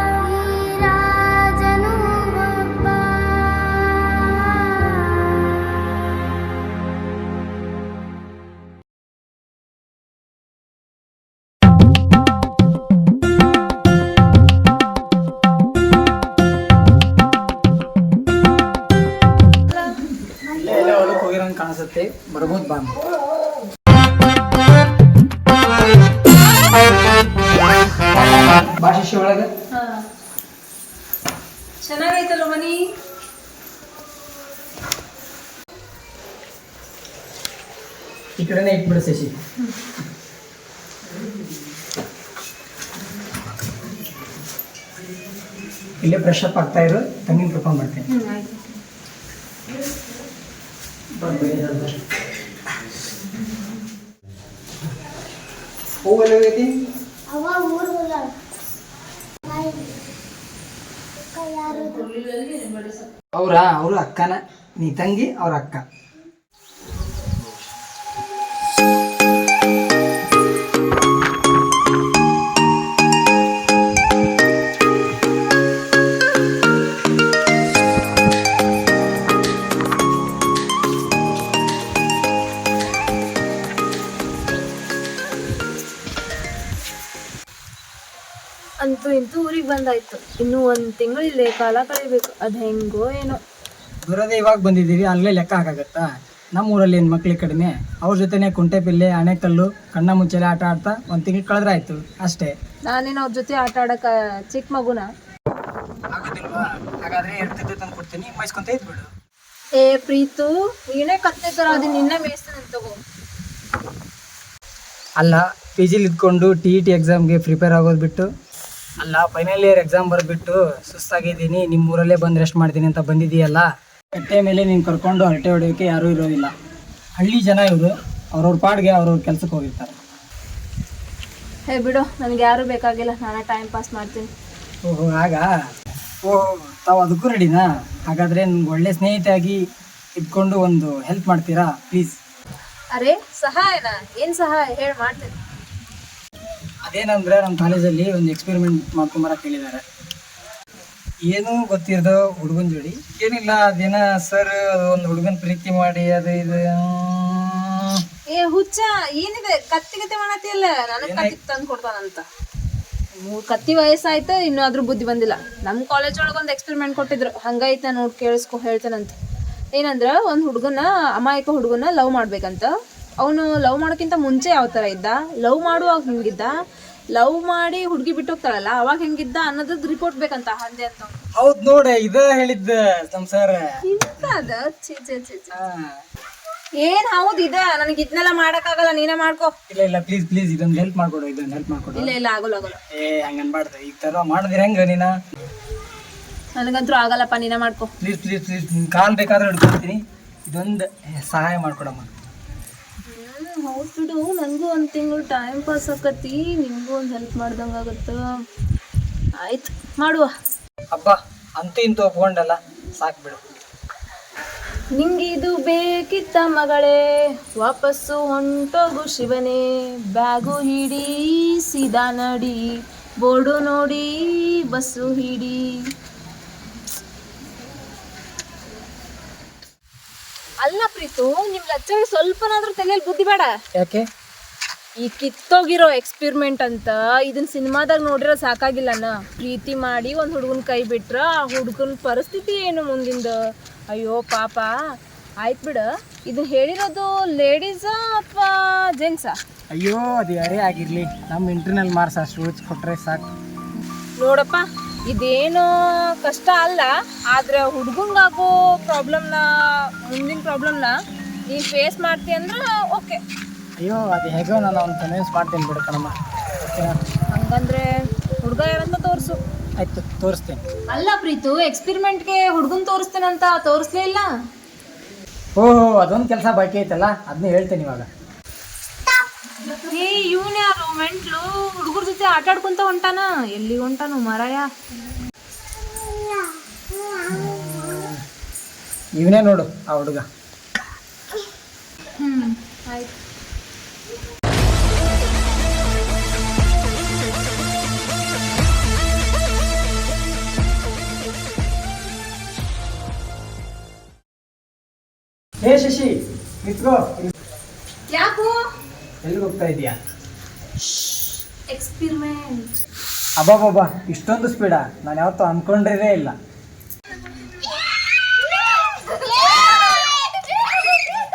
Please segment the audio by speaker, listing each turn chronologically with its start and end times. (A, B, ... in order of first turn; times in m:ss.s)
0:00.2-0:03.8 A
0:19.7-0:20.0 B
0:20.4-0:23.0 C
0:28.1-0:29.5 C
0:29.7-0:30.0 B
0:31.8-0:32.8 B
0:38.4-0:39.3 C
0:46.0-0:48.1 C
0:48.1-0:48.7 B
0:51.2-0:52.4 C
0:56.0-0:56.7 C
0:57.3-0:58.3 A
0:59.5-0:59.8 A
1:01.4-1:01.7 A
1:01.6-1:03.1 B
1:03.3-1:05.8 C
1:28.8-1:33.4 B
1:34.0-1:42.6 C
1:42.9-1:45.1 B
1:46.1-1:49.1 C
1:49.8-1:53.0 B
1:55.2-1:58.3 C
1:59.0-2:06.5 C
2:07.2-2:10.0 C
2:11.7-2:14.3 B
2:14.8-2:15.5 C
2:16.2-2:19.6 C
2:20.2-2:22.2 C
2:22.9-2:25.3 B
2:26.9-2:29.8 C
2:31.3-2:38.0 C
2:38.3-2:42.2 B
2:41.0-2:41.4 C
2:43.2-2:49.2 B
2:49.8-2:56.5 B
2:57.2-3:01.2 B
3:01.4-3:03.7 C
3:03.8-3:05.6 B
3:05.5-3:05.9 C
3:06.8-3:09.5 B
3:09.7-3:12.2 C
3:11.9-3:12.8 B
3:12.9-3:15.1 C
3:16.6-3:17.9 B
3:18.0-3:22.1 C
3:23.1-3:28.2 B
3:29.4-3:30.3 B
3:30.9-3:33.4 C
3:35.0-3:37.0 B
3:37.6-3:45.8 B
3:50.6-3:53.5 B
3:53.8-3:54.1 C
3:55.0-4:03.3 B
4:03.9-4:04.7 B
4:05.4-4:09.4 B
4:09.7-4:13.3 C
4:14.2-4:15.7 B
4:16.2-4:19.5 B
4:20.0-4:21.0 B
4:21.5-4:23.2 B
4:23.8-4:27.0 C
4:27.3-4:27.9 B
4:28.4-4:29.4 B
4:29.8-4:30.6 C
4:30.9-4:34.3 B
4:35.6-4:38.1 C
4:39.7-4:44.7 B
4:49.2-4:50.2 C
4:52.1-4:53.2 B
5:05.6-5:07.3 C
5:08.1-5:08.6 B
5:09.2-5:10.0 C
5:10.8-5:12.8 B
5:13.4-5:16.4 C